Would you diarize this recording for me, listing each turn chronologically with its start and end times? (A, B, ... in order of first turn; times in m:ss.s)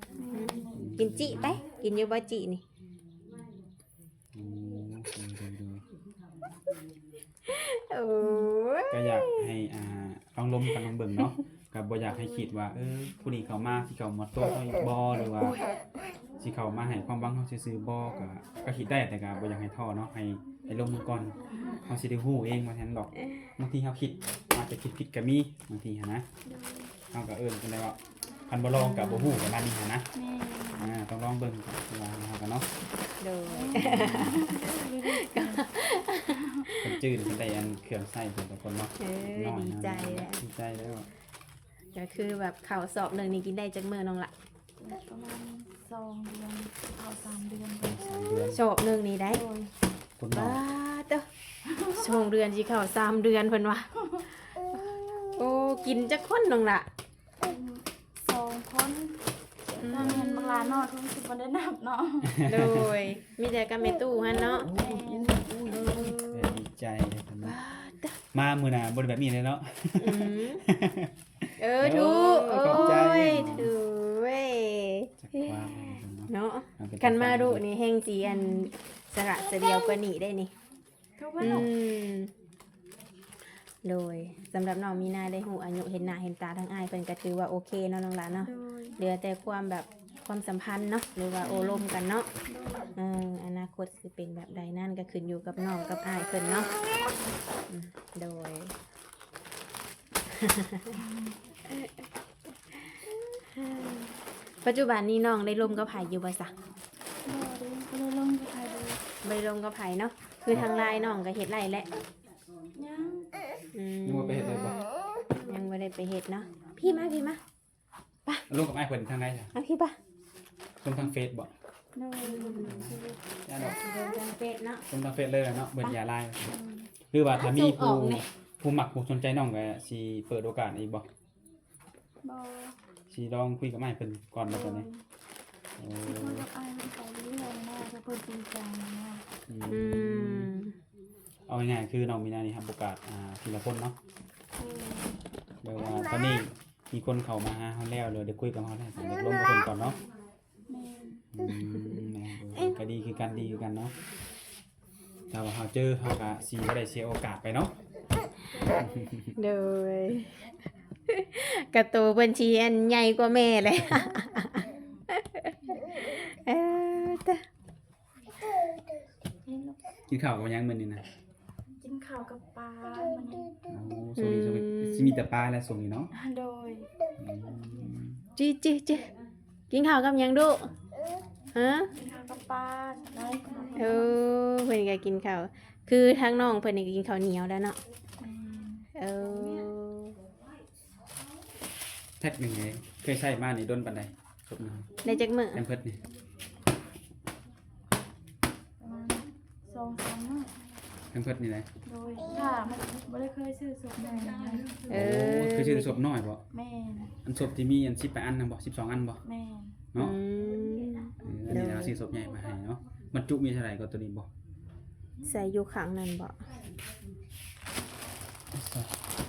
0:00.2-0:01.5 A
0:00.3-0:02.6 B
0:00.7-0:01.6 C
0:04.3-0:05.8 C
0:07.5-0:09.5 B
0:08.9-0:15.6 C
0:16.4-0:26.3 C
0:21.4-0:21.9 A
0:26.5-0:26.9 A
0:27.1-0:30.1 C
0:28.7-0:29.5 B
0:30.1-0:31.0 A
0:30.8-0:32.7 C
0:33.2-0:37.0 B
0:33.5-0:35.6 A
0:33.8-0:34.4 C
0:36.3-0:36.7 A
0:36.8-0:41.1 C
0:39.0-0:40.4 B
0:41.9-0:44.3 B
0:44.8-0:48.4 A
0:47.8-0:48.6 C
0:48.5-0:49.4 B
0:49.3-0:49.7 A
0:50.2-0:50.6 C
0:50.3-0:51.3 B
0:51.9-0:53.9 B
0:54.7-0:56.9 B
0:57.4-0:59.2 A
0:59.7-1:02.4 A
0:59.8-1:00.9 B
0:59.9-1:00.3 C
1:02.2-1:02.9 C
1:02.4-1:04.7 B
1:04.4-1:07.6 C
1:04.4-1:06.1 A
1:05.7-1:06.6 B
1:07.4-1:08.2 B
1:08.3-1:13.7 C
1:10.0-1:10.6 B
1:11.6-1:15.7 B
1:12.7-1:13.6 A
1:15.2-1:17.6 C
1:16.3-1:20.5 B
1:18.2-1:18.7 A
1:21.2-1:21.7 A
1:21.4-1:22.3 B
1:23.8-1:32.3 B
1:28.4-1:29.0 A
1:31.4-1:31.9 A
1:32.5-1:32.9 A
1:33.0-1:36.7 B
1:37.7-1:38.8 B
1:40.4-1:41.0 B
1:41.0-1:41.4 A
1:43.5-1:46.5 B
1:47.2-1:49.0 A
1:49.2-1:52.0 B
1:52.8-1:53.3 A
1:53.7-1:54.8 B
1:54.0-1:54.8 C
1:55.3-1:55.7 A
1:55.5-1:57.4 B
1:56.9-1:57.2 A
1:58.5-1:59.5 C
1:59.5-2:00.0 B
2:00.8-2:01.5 C
2:02.0-2:03.2 A
2:02.2-2:02.7 B
2:02.6-2:03.8 C
2:03.6-2:04.8 B
2:04.9-2:06.5 C
2:06.4-2:06.9 A
2:07.1-2:11.1 C
2:07.3-2:08.2 B
2:12.2-2:12.8 A
2:13.1-2:14.9 C
2:14.5-2:15.0 A
2:15.8-2:16.5 C
2:16.0-2:19.3 A
2:19.5-2:20.5 C
2:19.7-2:20.8 B
2:21.5-2:24.0 C
2:24.6-2:25.2 A
2:25.6-2:30.0 C
2:30.7-2:31.3 A
2:31.4-2:34.0 C
2:31.5-2:32.0 B
2:35.3-2:37.7 C
2:38.5-2:39.2 A
2:38.8-2:39.4 C
2:39.4-2:40.5 B
2:41.1-2:47.4 B
2:49.4-2:49.8 A
2:50.1-2:51.0 C
2:51.8-2:53.6 A
2:53.7-2:56.1 C
2:54.2-2:55.2 B
2:56.1-2:56.9 A
2:57.2-2:58.2 C
2:58.4-2:59.1 B
2:59.7-3:00.7 B
3:01.5-3:01.9 B
3:01.9-3:04.1 A
3:03.8-3:07.8 B
3:08.2-3:08.9 A
3:09.0-3:10.2 B
3:12.2-3:15.0 C
3:15.0-3:15.6 B
3:15.5-3:16.0 C
3:18.8-3:20.5 A
3:21.1-3:21.7 C
3:21.9-3:24.9 A
3:24.9-3:26.0 B
3:24.9-3:26.4 C
3:26.5-3:27.2 A
3:27.2-3:29.2 C
3:29.2-3:29.8 A
3:30.0-3:32.0 B
3:31.2-3:34.3 C
3:35.2-3:36.4 B
3:38.5-3:39.0 C